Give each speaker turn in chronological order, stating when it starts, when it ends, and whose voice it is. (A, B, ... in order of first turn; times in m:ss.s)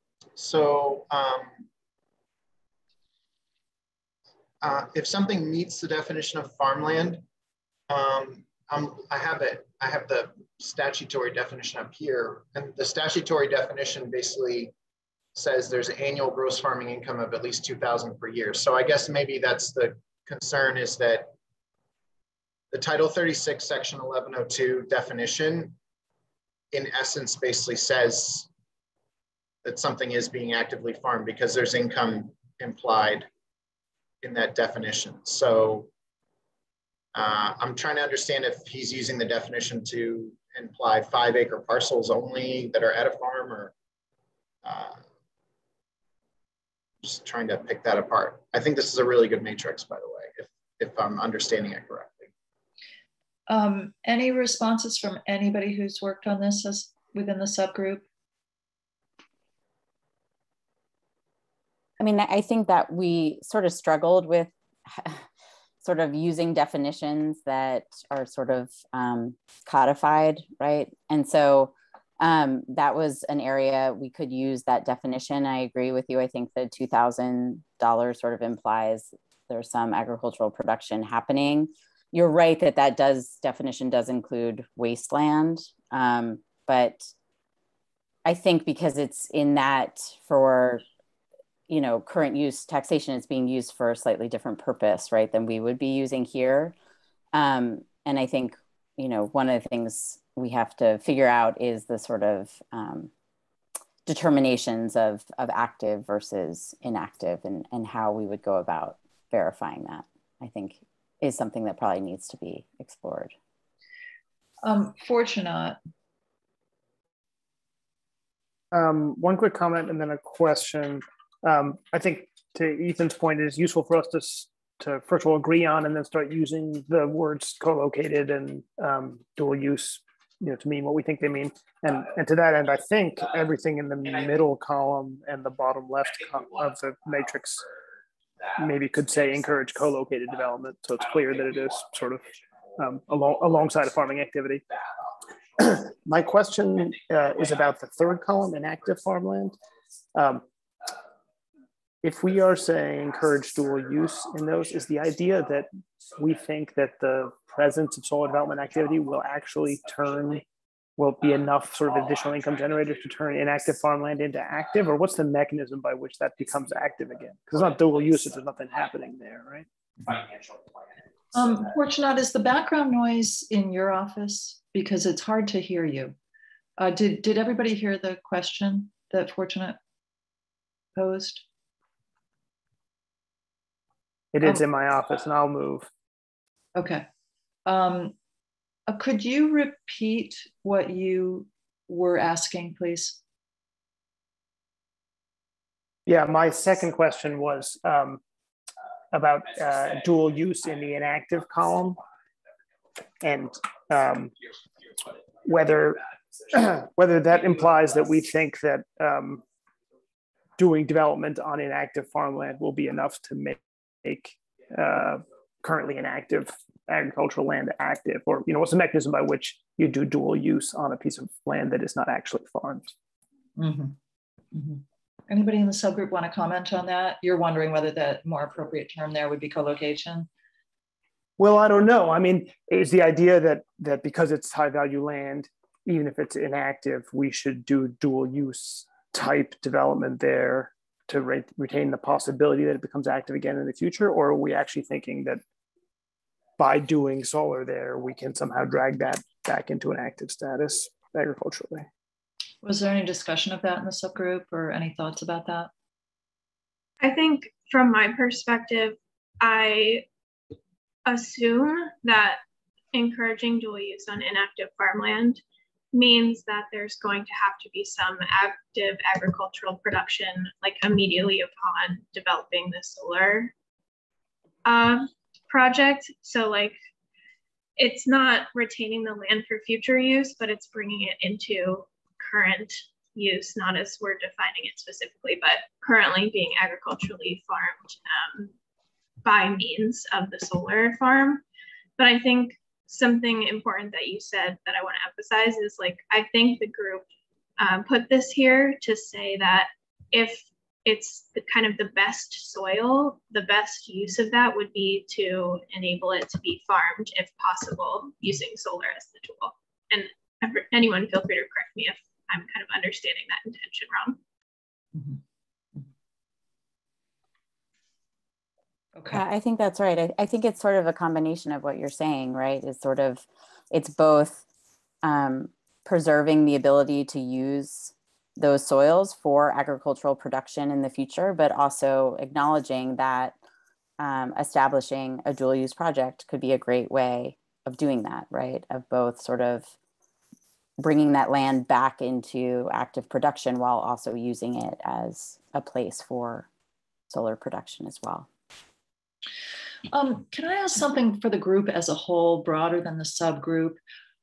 0:00.4-0:01.6 A
0:04.6-0:07.2 A
0:07.9-0:14.7 A
0:15.4-0:21.3 A
0:22.7-0:25.8 A
0:26.7-0:28.5 A
0:29.6-0:33.3 A
0:34.2-0:35.9 A
0:37.1-0:43.7 A
0:44.6-0:45.0 A
0:47.0-0:52.3 A
0:53.5-0:58.0 B
1:02.0-1:05.2 C
1:05.8-1:27.1 C
1:28.2-1:30.8 C
1:31.7-1:36.8 C
1:37.3-1:43.1 C
1:44.1-1:53.3 C
1:54.6-1:55.8 B
1:58.7-2:17.7 D
2:18.6-2:24.6 D
2:25.6-2:29.6 D
2:30.2-2:30.4 D
2:32.0-2:40.4 D
2:41.0-2:50.4 D
2:51.3-2:56.2 B
2:56.8-2:59.8 B
3:01.0-3:01.4 B
3:04.3-3:05.9 D
3:06.8-3:07.0 B
3:07.7-3:08.1 B
3:08.9-3:13.2 B
3:16.1-3:18.2 D
3:19.1-3:22.0 D
3:23.2-3:24.3 D
3:25.4-3:29.4 D
3:30.6-3:42.9 D
3:43.6-3:44.0 B
3:44.5-3:50.3 B
3:51.4-4:05.4 D
4:06.6-4:11.9 D
4:12.6-4:15.7 B
4:17.0-4:20.1 E
4:21.1-4:22.4 E
4:22.9-4:25.4 E
4:25.9-4:33.5 E
4:34.6-4:36.8 E
4:37.8-4:48.5 E
4:49.2-4:51.4 E
4:52.0-4:57.0 E
4:57.6-5:14.2 E
5:19.0-5:19.2 B
5:19.1-5:24.4 C
5:25.0-5:33.4 C
5:34.0-5:39.7 C
5:40.8-5:46.5 C
5:47.1-5:48.3 C
5:49.9-5:53.8 B